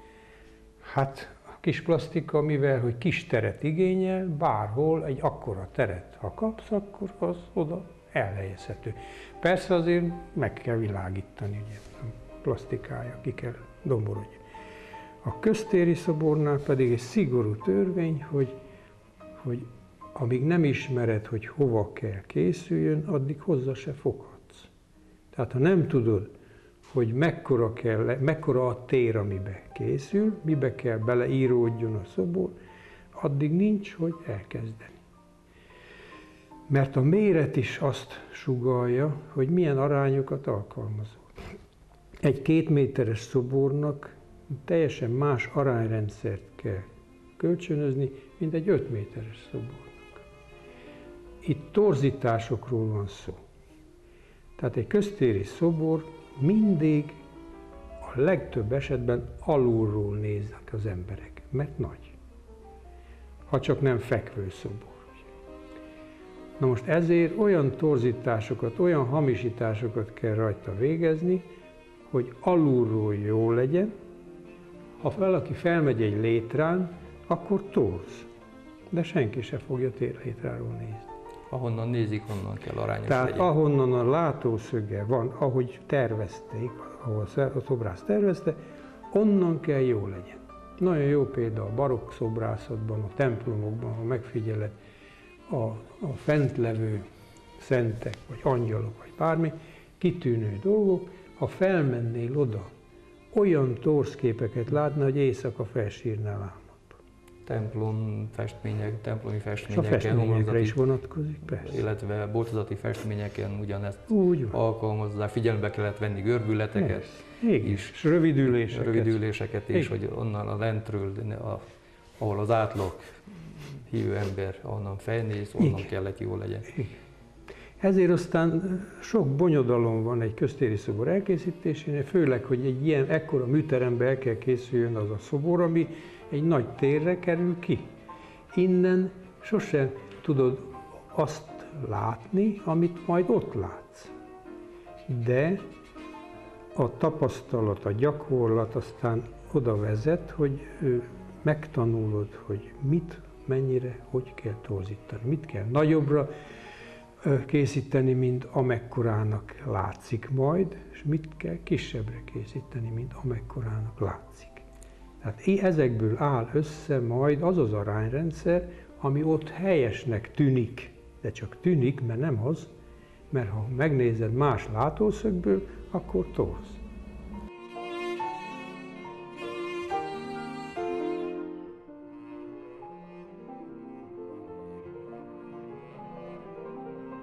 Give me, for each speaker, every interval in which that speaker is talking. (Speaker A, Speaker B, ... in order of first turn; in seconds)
Speaker A: 0.8-14.4, 15.2-18.6, 19.4-24.7, 25.3-26.3, 26.9-32.5, 33.1-35.0, 36.7-41.4, 42.2-46.9, 47.4-50.2, 51.4-53.4, 54.6-57.2, 58.0-62.2, 63.5-65.3, 66.6-71.5, 72.1-73.9, 75.0-78.3, 78.9-81.1, 83.1-88.6, 89.1-94.8, 95.5-97.1, 97.6-102.7, 103.3-107.0, 109.7-111.8, 114.1-114.5, 116.8-119.2, 127.8-137.9, 138.5-144.1, 145.1-145.7, 146.8-156.3, 157.2-164.7, 165.2-172.7, 173.3-176.8
Speaker B: 81.5-83.5, 107.5-110.8, 111.6-118.0, 118.6-126.8